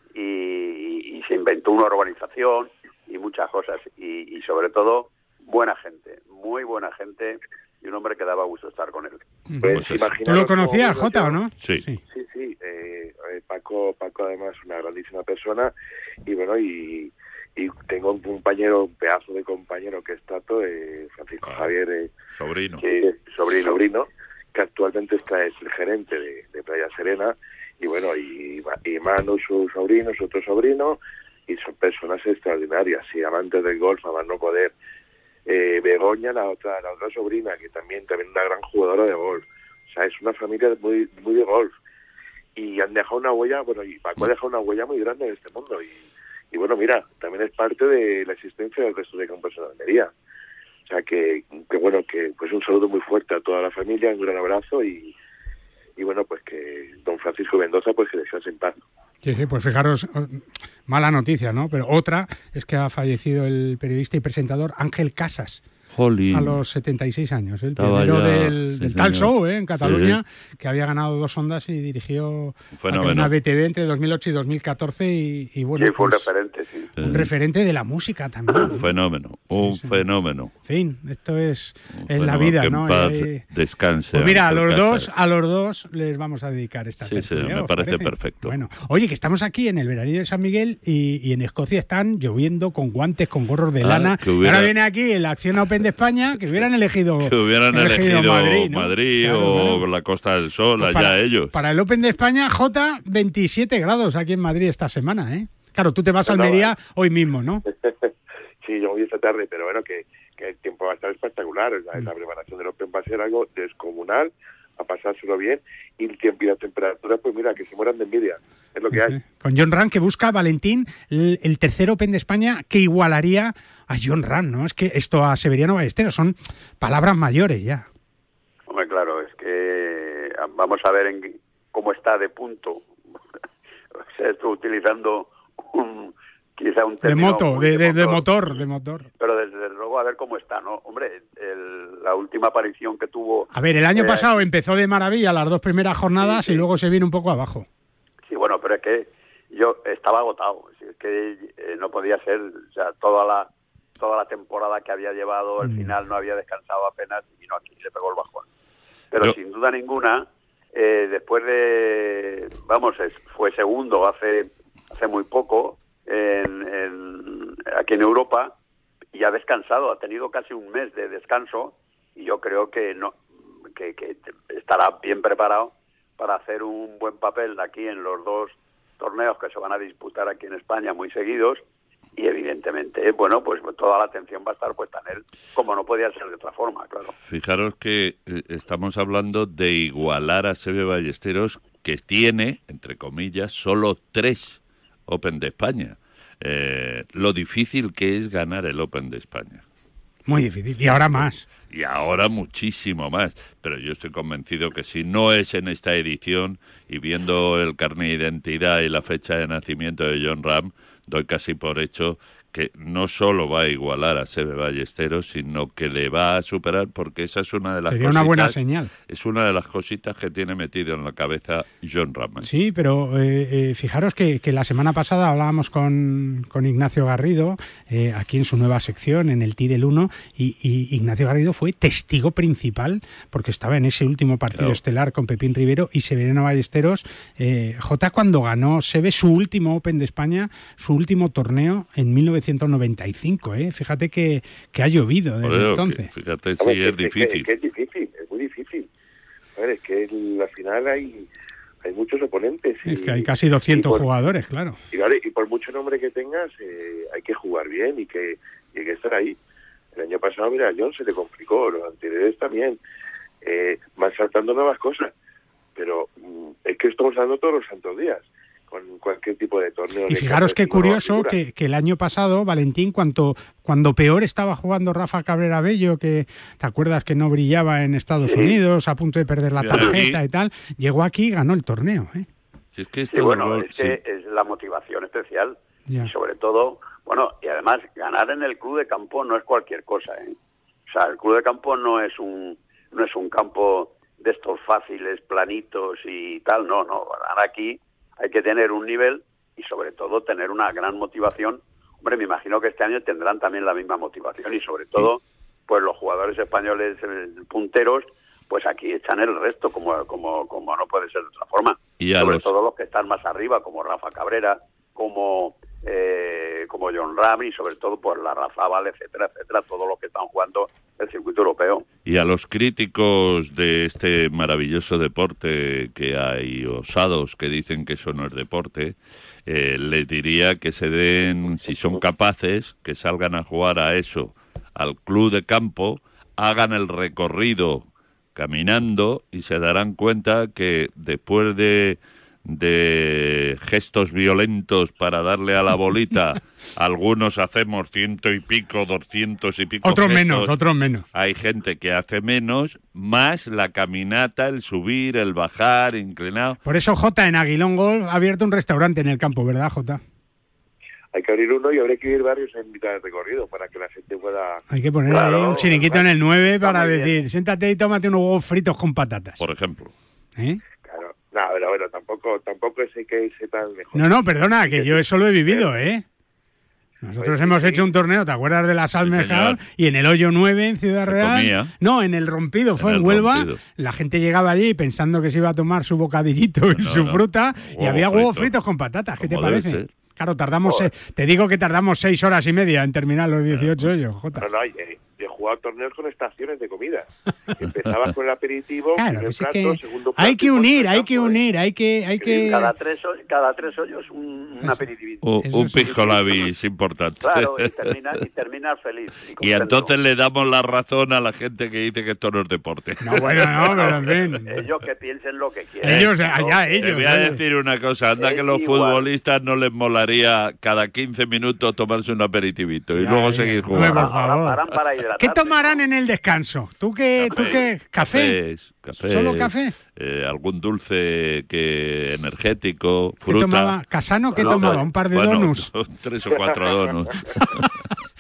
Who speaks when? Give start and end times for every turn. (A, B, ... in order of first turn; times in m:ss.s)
0:00.1-0:09.2 A
0:09.5-0:12.0 B
0:09.6-0:11.4 C
0:09.7-0:10.1 D
0:11.6-0:11.8 D
0:12.1-0:15.7 C
0:16.2-0:22.1 C
0:21.4-0:21.7 D
0:22.3-0:22.8 D
0:22.8-0:23.6 A
0:22.8-0:34.7 C
0:35.4-0:41.8 C
0:42.6-0:50.1 C
0:50.8-0:55.1 C
0:56.0-0:58.8 C
0:59.2-1:05.6 B
1:05.9-1:06.6 D
1:06.3-1:16.3 B
1:07.8-1:10.2 D
1:12.7-1:13.3 D
1:15.8-1:16.9 A
1:17.0-1:17.3 D
1:17.0-1:18.8 B
1:18.5-1:20.5 D
1:19.5-1:20.0 B
1:20.6-1:23.4 B
1:22.0-1:25.1 D
1:24.1-1:39.8 B
1:27.0-1:28.6 D
1:33.8-1:34.7 D
1:37.2-1:41.5 D
1:40.8-1:47.6 B
1:46.3-1:46.7 C
1:47.8-1:48.1 C
1:48.6-1:59.2 C
1:58.9-2:07.9 B
2:08.7-2:12.9 A
2:14.1-2:18.2 A
2:17.0-2:19.1 B
2:19.2-2:24.4 A
2:23.5-2:27.7 B
2:26.2-2:26.6 A
2:28.3-2:38.4 A
2:35.6-2:35.9 B
2:39.1-2:48.5 A
2:49.1-2:53.2 A
2:53.8-3:01.6 A
3:02.2-3:07.1 A
3:07.2-3:19.6 D
3:20.3-3:21.4 B
3:20.9-3:42.5 D
3:37.9-3:38.9 B
3:42.4-4:06.1 B
3:54.5-3:54.8 D
4:05.4-4:07.5 D
4:06.6-4:08.9 C
4:09.6-4:11.3 C
4:11.8-4:14.1 C
4:12.8-4:14.8 B
4:14.9-4:19.4 C
4:19.9-4:22.8 C
4:23.4-4:25.1 C
4:25.7-4:31.4 C
4:30.1-4:42.3 B
4:38.3-4:38.5 A
4:39.6-4:40.2 D
4:42.7-4:44.0 D
4:43.1-4:50.3 A
4:50.9-5:21.8 A
5:12.0-5:12.5 D
5:22.0-5:50.6 D
5:31.1-5:32.2 C
5:49.8-5:51.0 B
5:51.1-5:56.6 D
5:56.6-6:00.0 B
6:01.1-6:07.1 C
6:04.7-6:09.4 B
6:09.4-6:09.9 D
6:10.8-6:15.7 C
6:13.9-6:16.0 B
6:17.0-6:34.4 B
6:17.2-6:17.8 C
6:19.0-6:19.6 D
6:21.0-6:21.7 D
6:22.8-6:23.6 D
6:26.7-6:28.5 D
6:29.2-6:29.9 D
6:34.3-6:41.4 C
6:37.6-6:38.0 D
6:39.0-6:42.7 B
6:42.3-6:45.2 A
6:44.6-6:44.8 B
6:45.2-6:48.2 D
6:45.4-6:46.4 B
6:47.2-6:49.9 A
6:49.4-6:54.4 D
6:53.0-6:54.6 B
6:54.5-6:57.2 A
6:55.8-6:57.4 B
6:55.8-6:56.1 D
6:56.8-7:04.5 D
6:58.2-6:59.0 A
7:03.0-7:04.6 B
7:03.8-7:05.8 A
7:05.2-7:08.4 B
7:07.2-7:13.8 D
7:08.9-7:09.7 B
7:13.2-7:15.7 B
7:14.3-7:17.7 D
7:14.4-7:14.7 C
7:16.3-7:17.1 C
7:17.4-7:17.7 B